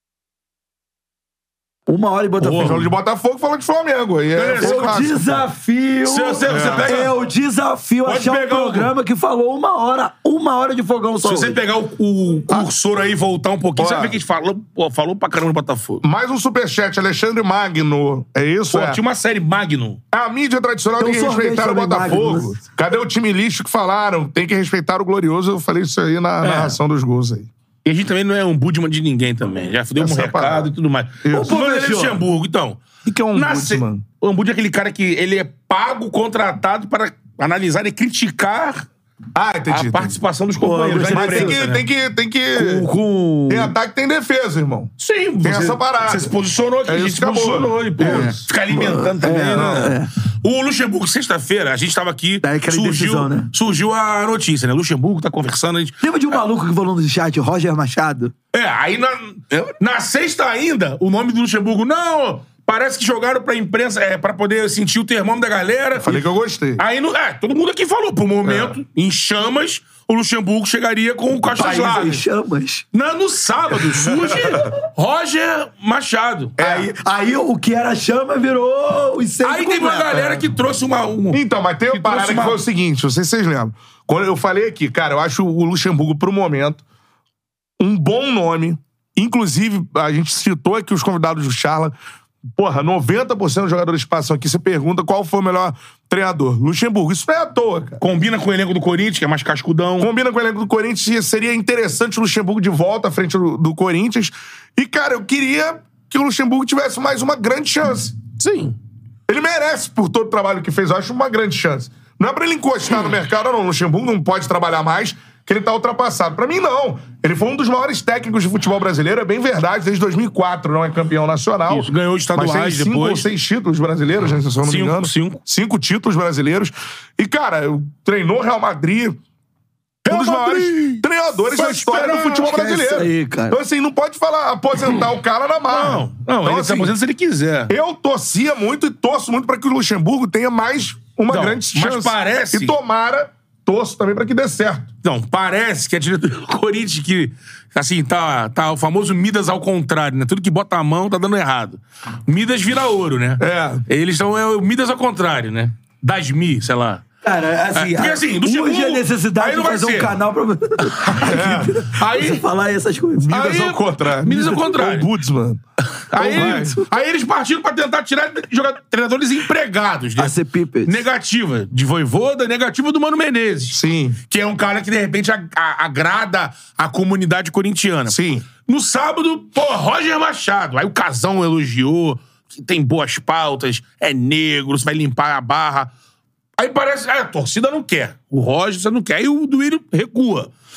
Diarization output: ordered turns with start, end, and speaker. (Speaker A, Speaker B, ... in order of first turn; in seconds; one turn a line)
Speaker A: 1.9-2.9
Speaker B: 2.4-2.8
Speaker C: 2.6-5.3
Speaker B: 4.3-5.4
Speaker A: 4.6-11.6
Speaker B: 6.0-7.2
Speaker C: 6.5-6.9
Speaker B: 8.0-8.9
Speaker B: 11.2-16.0
Speaker C: 13.8-14.2
Speaker C: 16.0-19.0
Speaker B: 18.7-20.0
Speaker C: 20.1-27.5
Speaker A: 21.0-22.6
Speaker B: 26.4-26.8
Speaker B: 27.8-32.8
Speaker C: 30.0-30.7
Speaker C: 31.2-31.5
Speaker A: 31.3-32.2
Speaker C: 33.0-34.0
Speaker B: 33.3-38.9
Speaker C: 39.4-40.2
Speaker B: 39.7-41.8
Speaker A: 40.6-41.8
Speaker C: 41.0-42.9
Speaker A: 42.5-43.8
Speaker C: 43.5-44.9
Speaker B: 45.0-56.4
Speaker C: 45.4-46.3
Speaker C: 46.9-48.4
Speaker A: 48.0-50.1
Speaker C: 49.6-49.9
Speaker A: 52.4-53.5
Speaker A: 56.0-58.3
Speaker B: 58.5-66.3
Speaker C: 66.0-66.8
Speaker B: 66.8-72.2
Speaker C: 68.5-68.7
Speaker A: 71.5-72.8
Speaker B: 72.9-76.6
Speaker C: 74.1-74.6
Speaker C: 76.6-76.9
Speaker A: 76.6-80.3
Speaker B: 79.4-82.6
Speaker C: 80.1-80.4
Speaker C: 81.3-86.8
Speaker C: 87.8-92.0
Speaker C: 92.6-98.0
Speaker B: 98.0-100.1
Speaker C: 100.0-108.2
Speaker B: 108.4-108.8
Speaker C: 109.3-129.2
Speaker B: 121.7-123.3
Speaker B: 124.6-125.4
Speaker B: 130.1-132.6
Speaker C: 130.1-136.9
Speaker A: 132.3-133.6
Speaker B: 135.7-137.7
Speaker C: 137.7-144.9
Speaker B: 141.3-142.8
Speaker B: 145.0-157.0
Speaker C: 153.4-153.8
Speaker A: 157.2-163.4
Speaker B: 157.7-160.2
Speaker B: 160.8-162.4
Speaker C: 161.2-161.8
Speaker C: 163.3-165.6
Speaker B: 163.3-165.1
Speaker B: 166.1-185.9
Speaker C: 166.2-166.8
Speaker A: 166.2-166.9
Speaker A: 170.2-171.0
Speaker C: 173.7-174.2
Speaker C: 178.1-178.5
Speaker B: 186.6-190.5